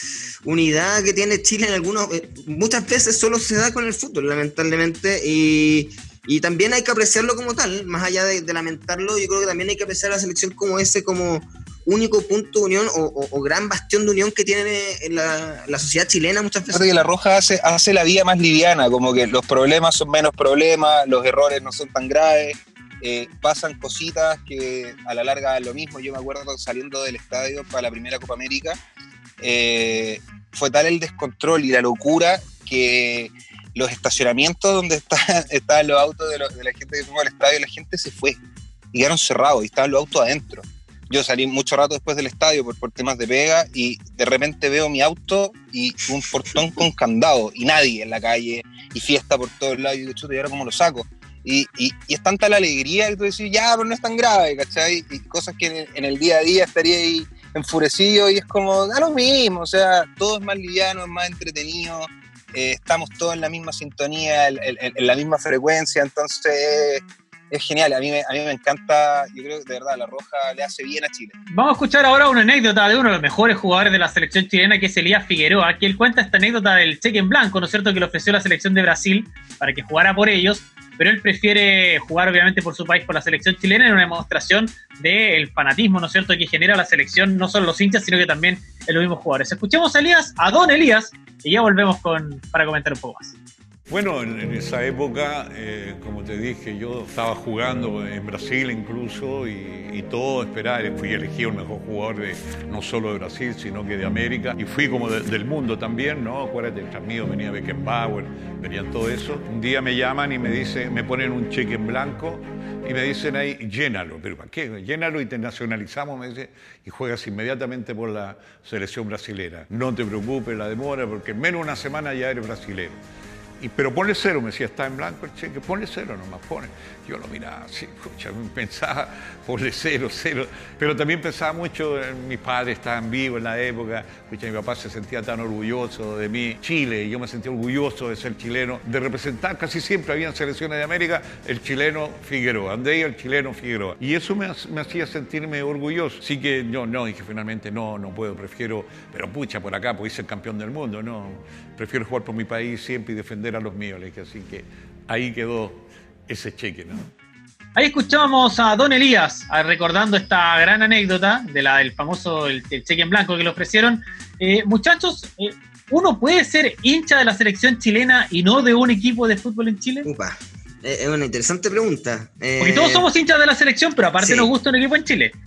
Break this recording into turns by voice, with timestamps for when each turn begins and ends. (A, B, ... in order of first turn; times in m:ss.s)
0:00.4-0:16.9 A
0:16.7-0:28.8 B
0:29.4-0:38.4 B
0:38.9-1:11.3 B
1:11.5-1:33.4 C
1:33.9-2:03.0 D
2:03.6-2:37.1 D
2:37.8-2:50.1 C
2:50.0-2:53.0 A
2:52.6-2:55.3 C
2:54.2-2:54.5 A